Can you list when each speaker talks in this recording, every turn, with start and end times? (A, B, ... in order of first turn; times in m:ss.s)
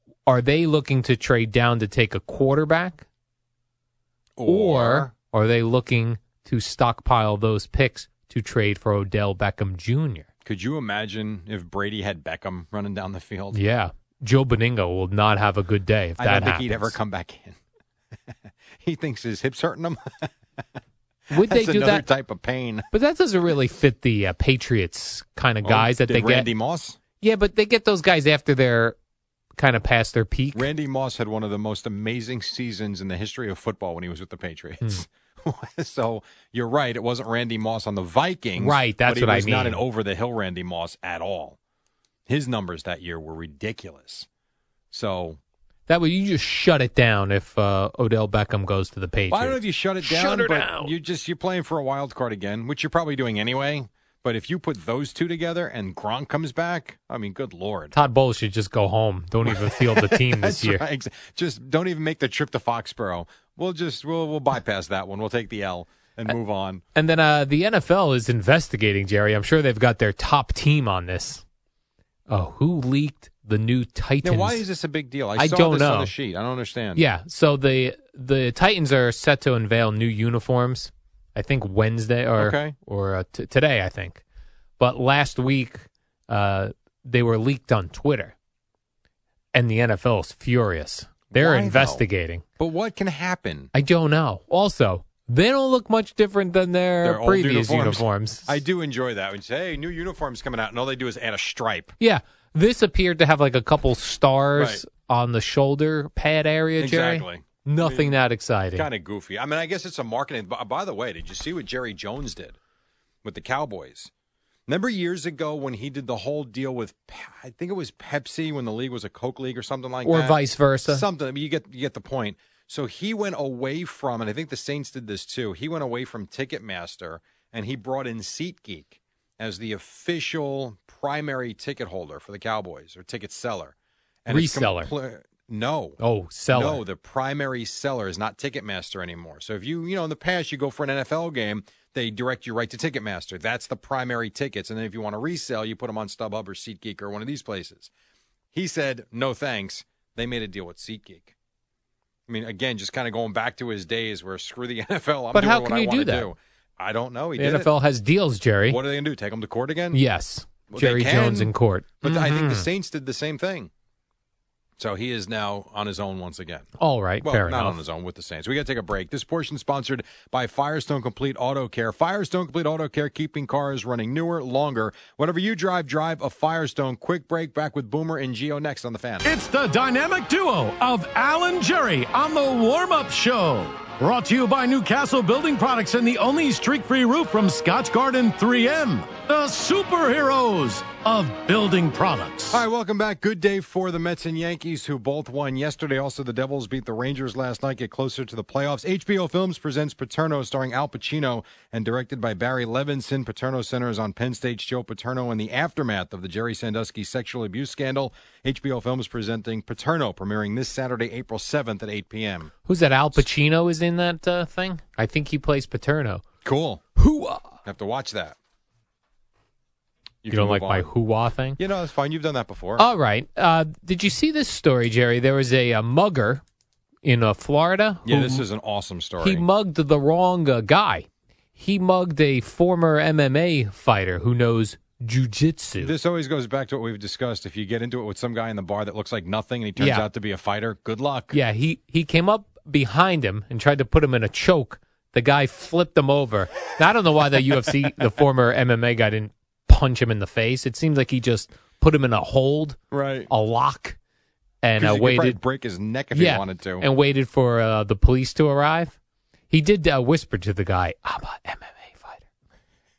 0:00.2-0:03.0 A
0:04.4-0:05.1 B
0:04.4-0:10.3 A
0:10.4-0:13.6 B
0:13.5-0:17.0 A
0:16.2-0:17.6 B
0:18.8-0:20.3 B
0:21.3-0:22.0 A
0:21.3-0:22.9 B
0:22.9-0:26.5 A
0:25.6-0:27.0 B
0:27.2-0:29.0 A
0:29.6-0:30.7 A
0:30.5-0:41.6 B
0:38.6-0:39.8 A
0:42.3-0:44.3 B
0:44.9-0:45.4 B
0:45.9-0:50.9 A
0:49.3-0:57.9 B
0:57.9-1:00.8 A
0:59.4-1:06.8 B
1:07.0-1:11.4 A
1:12.3-1:14.6 A
1:14.2-1:17.0 B
1:15.4-1:16.1 A
1:17.0-1:24.2 A
1:22.4-1:22.7 B
1:24.8-1:28.3 A
1:29.5-1:32.4 A
1:31.3-1:32.0 B
1:32.6-1:33.7 B
1:33.7-1:38.6 A
1:37.0-1:41.9 B
1:42.0-1:48.9 A
1:44.6-1:44.8 B
1:46.8-1:48.1 B
1:48.8-1:52.6 B
1:53.2-1:54.1 B
1:54.7-2:16.0 B
2:00.0-2:01.0 A
2:14.3-2:14.9 A
2:16.0-2:16.8 A
2:16.5-2:27.9 B
2:28.5-2:31.3 B
2:32.3-2:37.7 B
2:35.3-2:36.3 A
2:37.4-2:38.8 A
2:38.7-2:40.0 B
2:39.9-2:42.7 A
2:40.7-2:43.7 B
2:44.8-2:46.7 B
2:46.8-2:47.8 A
2:47.2-2:59.2 B
2:59.2-3:12.6 C
3:12.5-3:32.5 B
3:32.6-3:36.2 A
3:36.4-3:36.8 B
3:37.0-3:37.5 A
3:37.6-3:38.4 B
3:40.2-3:40.9 B
3:40.3-3:41.6 A
3:41.6-3:42.8 B
3:42.8-3:46.4 A
3:47.0-3:48.4 A
3:48.0-3:49.4 B
3:49.2-3:55.9 A
3:55.8-4:01.3 B
3:59.8-4:00.1 A
4:01.3-4:12.8 A
4:12.9-4:13.3 B
4:13.3-4:14.0 A
4:14.6-4:15.4 A
4:14.8-4:16.8 B
4:16.1-4:19.0 A
4:19.5-4:22.2 A